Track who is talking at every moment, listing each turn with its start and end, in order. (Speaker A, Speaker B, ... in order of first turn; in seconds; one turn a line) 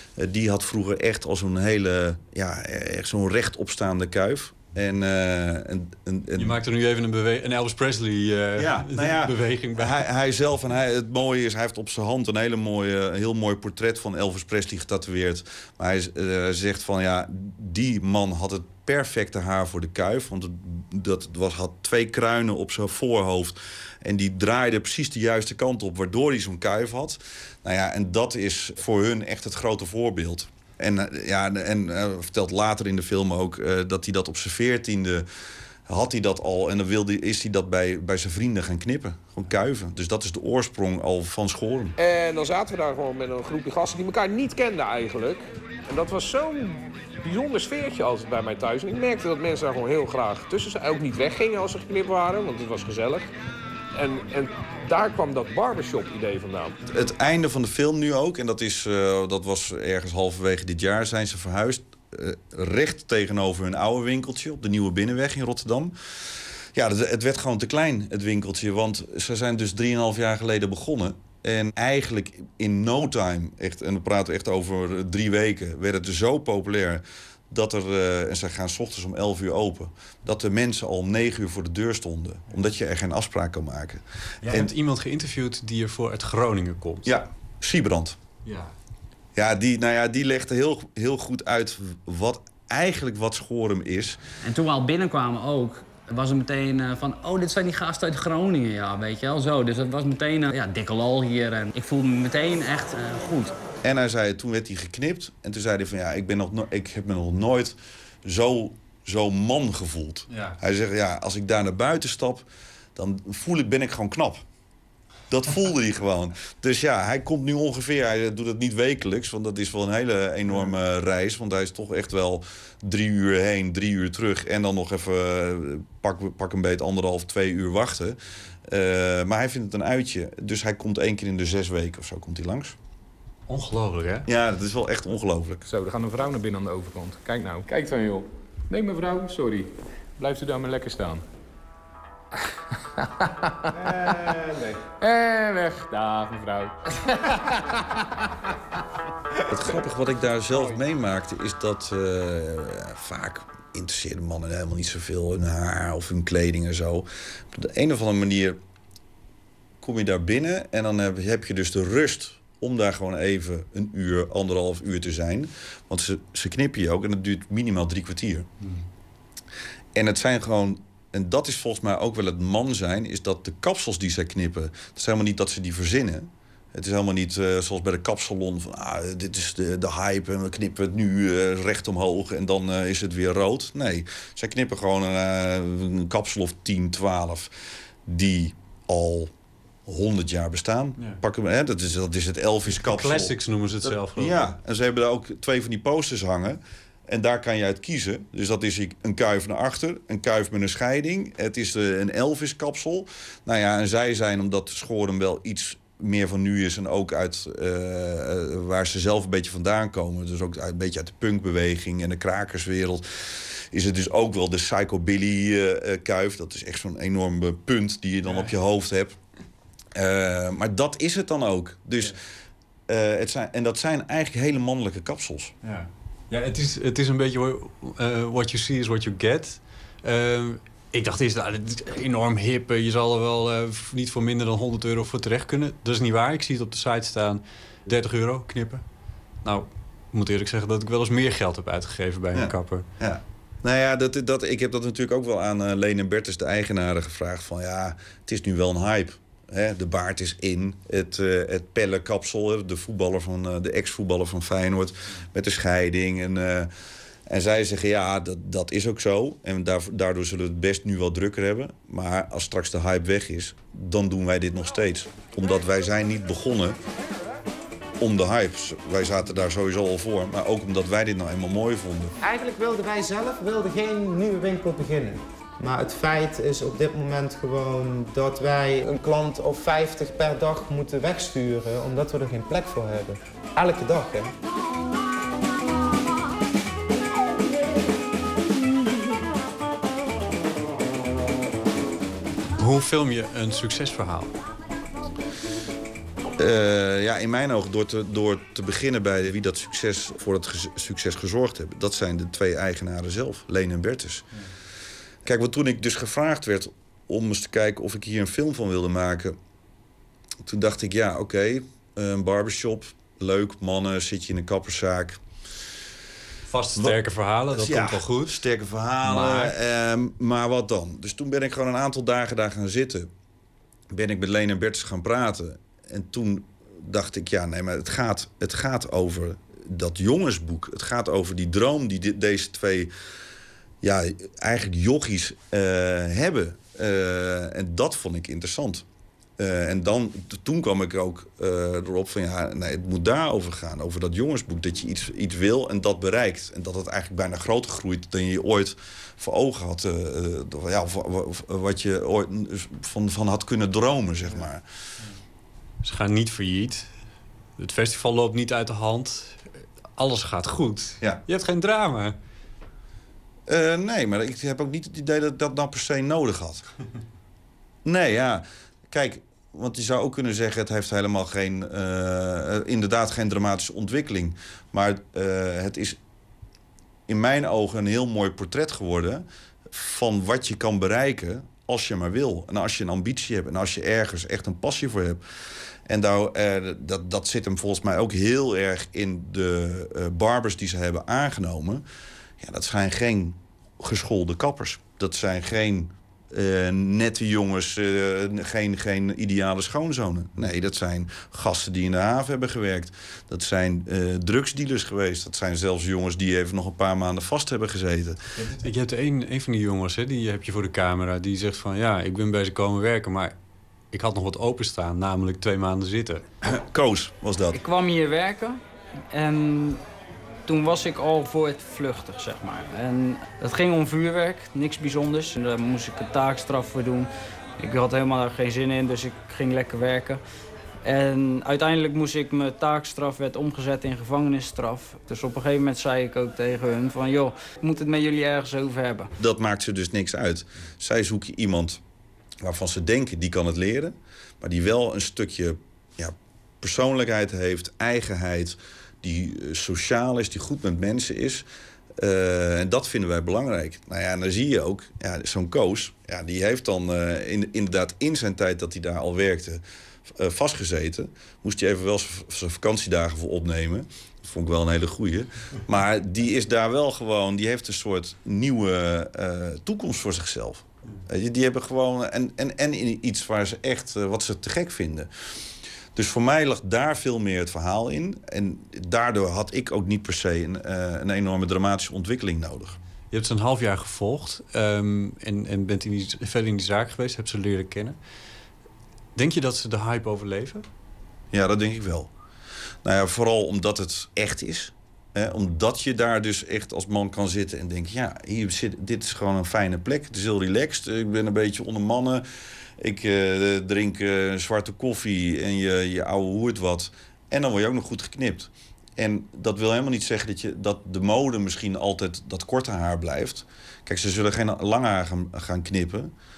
Speaker A: 0.2-6.6
Speaker B: 6.3-10.1
Speaker A: 8.6-35.3
Speaker A: 35.9-42.0
Speaker C: 42.0-53.3
Speaker C: 54.0-56.7
Speaker A: 56.9-65.9
Speaker A: 66.7-84.7
Speaker B: 84.4-87.2
Speaker A: 87.0-88.2
Speaker B: 88.4-88.7
Speaker A: 89.3-94.2
Speaker D: 94.4-103.5
Speaker A: 103.8-114.4
Speaker A: 115.3-132.8
Speaker B: 133.5-134.3
Speaker A: 134.3-135.6
Speaker C: 135.7-139.7
Speaker C: 140.2-141.2
Speaker C: 144.6-146.7
Speaker A: 149.5-158.6
Speaker A: 159.8-168.5
Speaker A: 169.9-187.5
Speaker A: 188.1-189.3
Speaker A: 189.8-193.3
Speaker B: 192.7-194.6
Speaker A: 193.9-219.2
Speaker B: 218.2-218.5
Speaker A: 219.9-222.2
Speaker A: 222.9-225.5
Speaker B: 225.6-238.8
Speaker B: 239.4-242.9
Speaker A: 242.3-256.7
Speaker A: 257.3-266.8
Speaker A: 268.0-272.1
Speaker E: 272.2-284.3
Speaker B: 292.6-294.4
Speaker A: 296.4-304.3
Speaker A: 305.2-309.4
Speaker A: 310.4-315.2
Speaker B: 316.5-318.4
Speaker A: 317.5-323.1
Speaker B: 319.0-319.6
Speaker A: 323.9-332.9
Speaker A: 333.8-338.8
Speaker A: 339.4-354.6
Speaker B: 355.8-357.0
Speaker B: 357.6-362.1
Speaker A: 363.5-366.6
Speaker A: 367.8-376.0
Speaker A: 377.1-385.2
Speaker A: 385.9-391.8
Speaker A: 392.4-408.2
Speaker B: 408.4-413.4
Speaker B: 413.9-416.2
Speaker A: 416.4-417.6
Speaker F: 417.5-419.8
Speaker F: 420.4-430.2
Speaker F: 430.8-439.1
Speaker A: 439.2-441.8
Speaker A: 442.4-451.4
Speaker A: 452.0-475.1
Speaker A: 475.9-482.8
Speaker B: 483.1-488.0
Speaker B: 489.1-490.6
Speaker A: 491.3-492.1
Speaker A: 492.8-502.2
Speaker A: 502.8-516.1